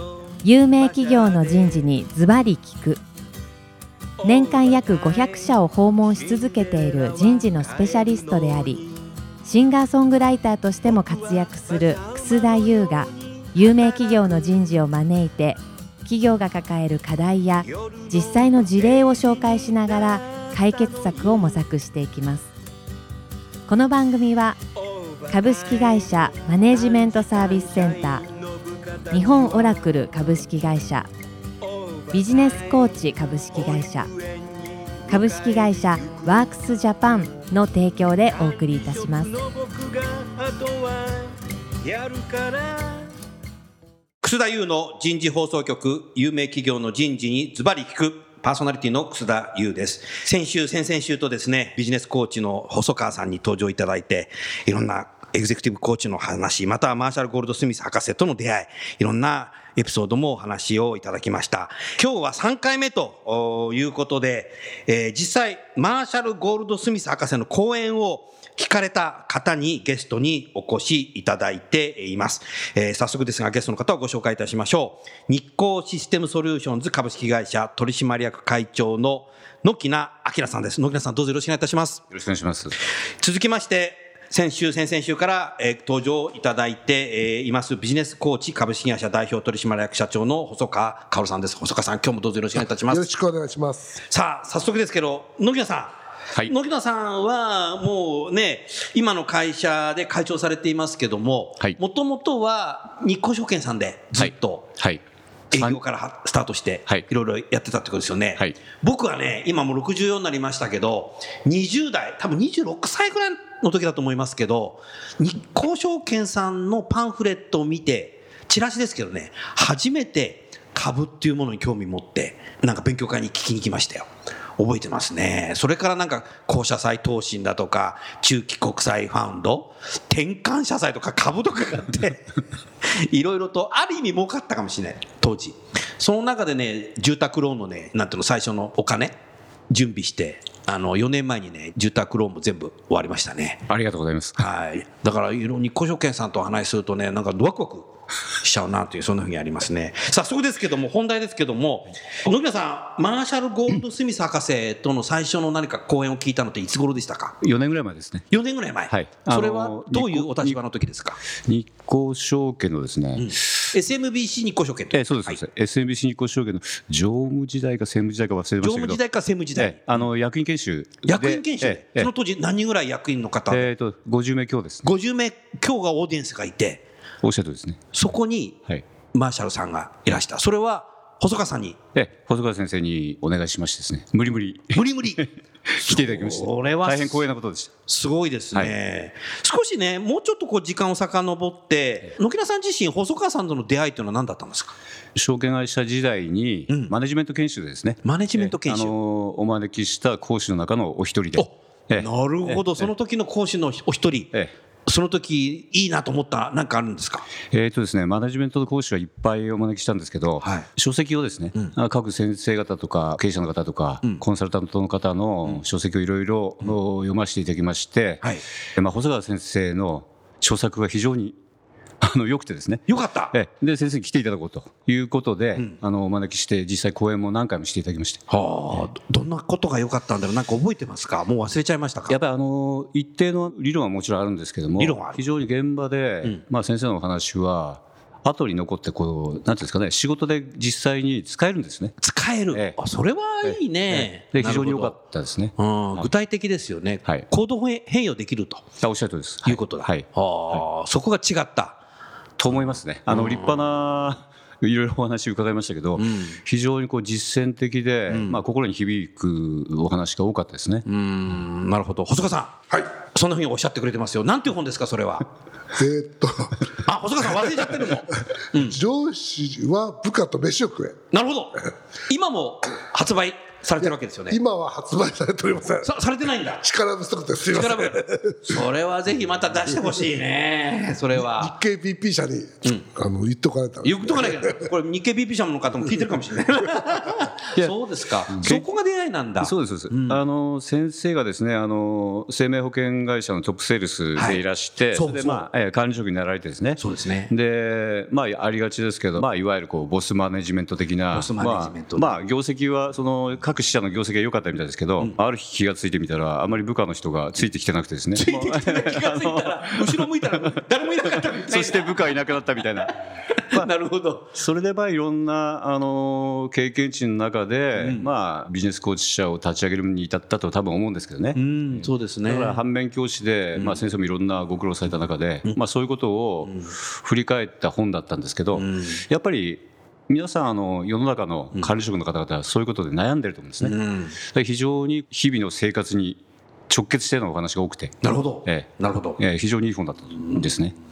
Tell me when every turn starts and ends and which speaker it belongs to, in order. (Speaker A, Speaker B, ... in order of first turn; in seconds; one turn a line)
Speaker A: 0.4-3.0
Speaker A: 4.2-8.9
Speaker A: 9.4-22.5
Speaker A: 23.7-24.6
Speaker A: 25.2-28.3
Speaker A: 29.1-31.1
Speaker A: 32.1-34.1
Speaker A: 35.1-39.5
Speaker B: 44.2-82.0
Speaker C: 82.1-82.8
Speaker B: 83.2-93.1
Speaker D: 92.9-94.0
Speaker B: 94.0-104.7
Speaker C: 104.2-105.0
Speaker B: 105.5-124.1
Speaker C: 105.5-105.8
Speaker B: 124.6-139.2
Speaker B: 139.7-143.6
Speaker C: 143.7-144.5
Speaker B: 144.4-147.9
Speaker B: 148.4-157.4
Speaker C: 157.4-158.3
Speaker B: 158.3-161.2
Speaker C: 158.9-160.6
Speaker C: 161.5-163.7
Speaker B: 163.2-165.4
Speaker C: 164.9-169.0
Speaker B: 168.6-169.8
Speaker C: 169.6-172.1
Speaker B: 171.1-173.7
Speaker C: 173.5-174.9
Speaker B: 174.8-176.8
Speaker C: 177.2-177.9
Speaker B: 177.9-178.6
Speaker B: 179.1-181.8
Speaker C: 181.9-187.7
Speaker B: 184.7-187.2
Speaker B: 187.9-194.7
Speaker C: 195.2-202.9
Speaker B: 198.0-198.9
Speaker B: 201.4-204.3
Speaker B: 204.9-207.3
Speaker C: 207.5-218.2
Speaker C: 218.8-221.3
Speaker C: 222.0-228.2
Speaker B: 222.9-223.3
Speaker B: 228.3-232.2
Speaker C: 232.1-242.0
Speaker B: 234.8-235.2
Speaker B: 242.0-244.9
Speaker C: 242.5-242.8
Speaker C: 243.4-246.1
Speaker B: 245.6-248.7
Speaker C: 248.8-250.6
Speaker B: 249.5-251.8
Speaker C: 252.4-260.8
Speaker B: 252.5-253.8
Speaker B: 256.0-256.4
Speaker B: 258.1-258.4
Speaker B: 260.9-265.3
Speaker D: 265.7-266.6
Speaker B: 266.8-268.8
Speaker D: 268.6-271.0
Speaker B: 271.1-274.4
Speaker D: 274.3-275.9
Speaker B: 275.8-276.6
Speaker D: 276.6-278.6
Speaker B: 277.5-281.6
Speaker D: 281.2-284.6
Speaker B: 283.8-290.2
Speaker C: 288.3-288.6
Speaker C: 289.4-310.4
Speaker B: 294.9-295.4
Speaker B: 296.8-297.3
Speaker B: 301.1-302.1
Speaker B: 308.1-312.1
Speaker C: 311.1-313.0
Speaker B: 313.5-314.4
Speaker C: 314.4-340.8
Speaker B: 317.8-318.1
Speaker B: 321.4-322.6
Speaker B: 323.6-323.8
Speaker B: 328.6-329.0
Speaker B: 333.6-334.2
Speaker B: 338.0-339.2